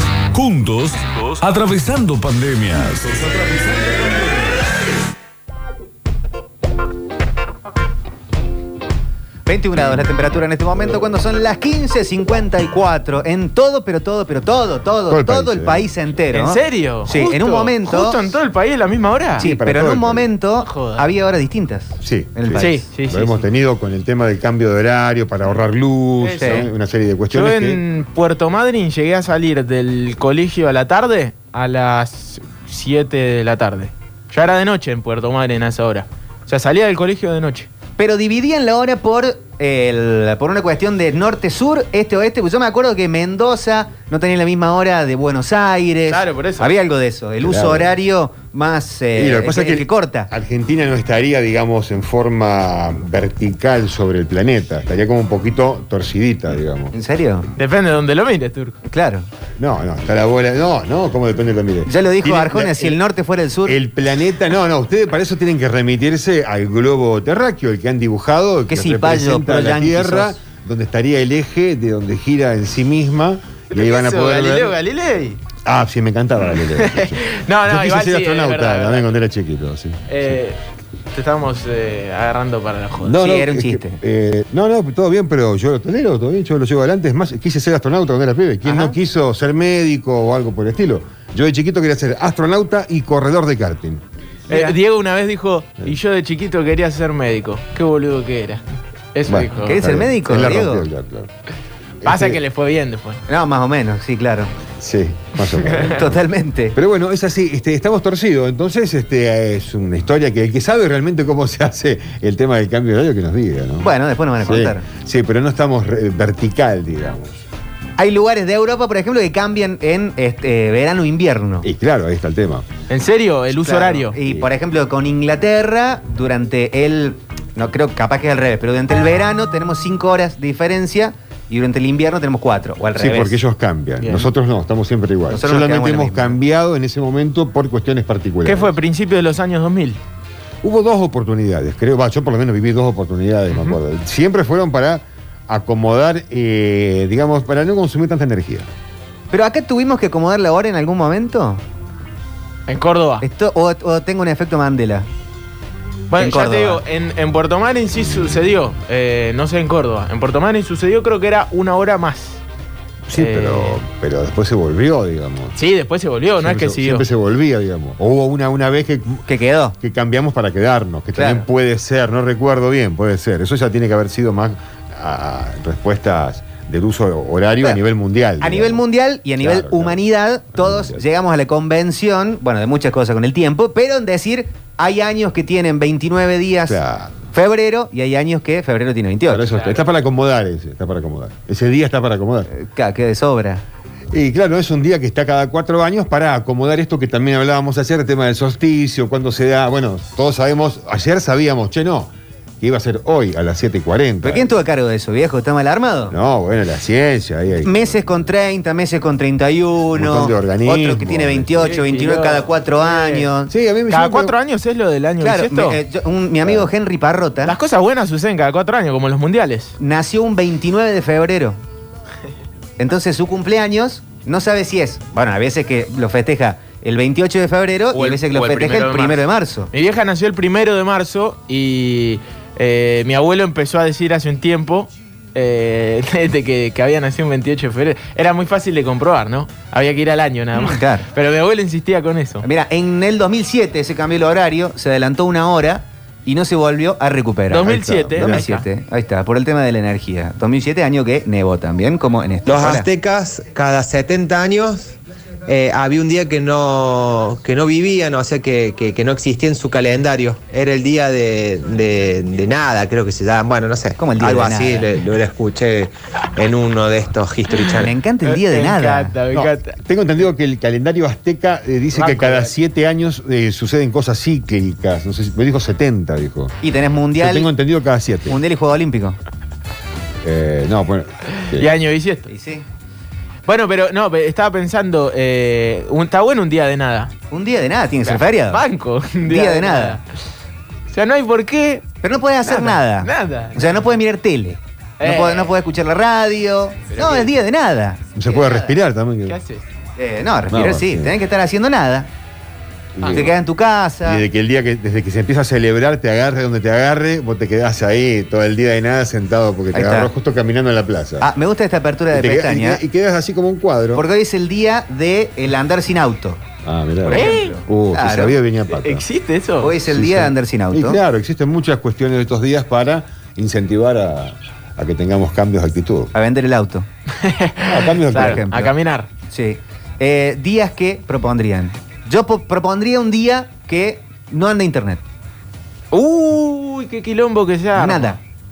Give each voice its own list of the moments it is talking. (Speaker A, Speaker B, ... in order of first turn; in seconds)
Speaker A: 0.3-4.6
Speaker B: 9.4-18.2, 19.4-22.9, 26.4-26.7, 38.0-50.3, 56.9-57.5, 58.9-59.3, 61.9-63.8, 68.7-70.3, 83.2-84.0, 88.6-89.0, 99.6-100.9, 103.3-104.5, 105.9-106.8, 113.8-114.8, 118.0-121.7, 123.6-133.4, 135.3-136.4, 149.3-151.6, 153.2-155.1, 156.1-156.8, 169.3-169.8, 171.2-171.4, 178.4-186.8, 187.3-189.4, 192.5-193.6, 204.2-206.1, 207.6-213.5, 215.2-217.5, 219.8-221.6, 222.8-229.7, 240.6-241.1, 242.4-252.9, 264.0-264.9, 267.7-269.1, 276.6-277.5, 278.3-279.2, 282.3-282.6, 287.3-288.6, 289.2-290.0, 292.0-298.8, 300.0-302.1, 303.1-304.2, 309.7-310.1, 311.2-312.8, 313.9-316.4, 317.0-318.4, 319.6-321.0, 326.1-326.9, 328.1-328.7, 329.3-335.0, 337.7-338.2
Speaker C: 15.1-15.9, 19.4-20.3, 22.0-27.8, 47.4-47.9, 49.1-56.9, 59.6-63.0, 63.6-74.7, 75.6-80.4, 83.0-94.0, 99.3-101.3, 102.0-102.4, 104.8-106.2, 106.7-113.9, 114.4-117.4, 121.6-122.7, 124.2-124.5, 132.9-138.7, 140.6-148.7, 163.1-165.6, 166.4-169.2, 169.8-178.8, 179.4-180.0, 180.5-181.0, 186.7-187.2, 189.3-192.5, 194.1-204.5, 206.1-208.1, 209.9-211.7, 213.5-214.3, 216.4-216.7, 247.7-248.4, 269.3-276.5, 277.2-278.4, 280.2-281.7, 298.1-299.4, 300.5-301.1, 302.9-303.3, 304.0-311.3, 312.1-314.0, 316.6-319.0, 319.9-326.1, 327.6-328.4
Speaker D: 16.3-19.4, 20.6-21.0, 22.6-23.4, 26.2-26.7, 27.3-37.7, 46.1-46.7, 57.6-58.8, 73.7-75.4, 76.7-79.1, 80.1-80.5, 81.1-83.3, 94.5-98.6, 99.1-99.8, 102.0-103.2, 105.6-105.9, 122.9-124.2, 134.0-134.3, 138.4-140.0, 143.5-143.8, 152.7-153.2, 156.1-162.4, 163.2-163.8, 165.6-167.1, 189.5-189.8, 211.6-213.3, 213.9-215.8, 217.4-219.7, 227.9-242.4, 247.5-248.7, 268.2-269.7, 281.5-282.3, 283.5-287.1, 288.1-290.0, 290.9-291.9, 292.4-293.8, 295.0-295.5, 296.9-297.3, 299.3-299.6, 303.0-303.2, 317.1-317.5, 318.8-319.7, 327.2-329.1, 335.9-338.2
Speaker E: 252.4-254.9, 255.5-267.9, 272.0-272.5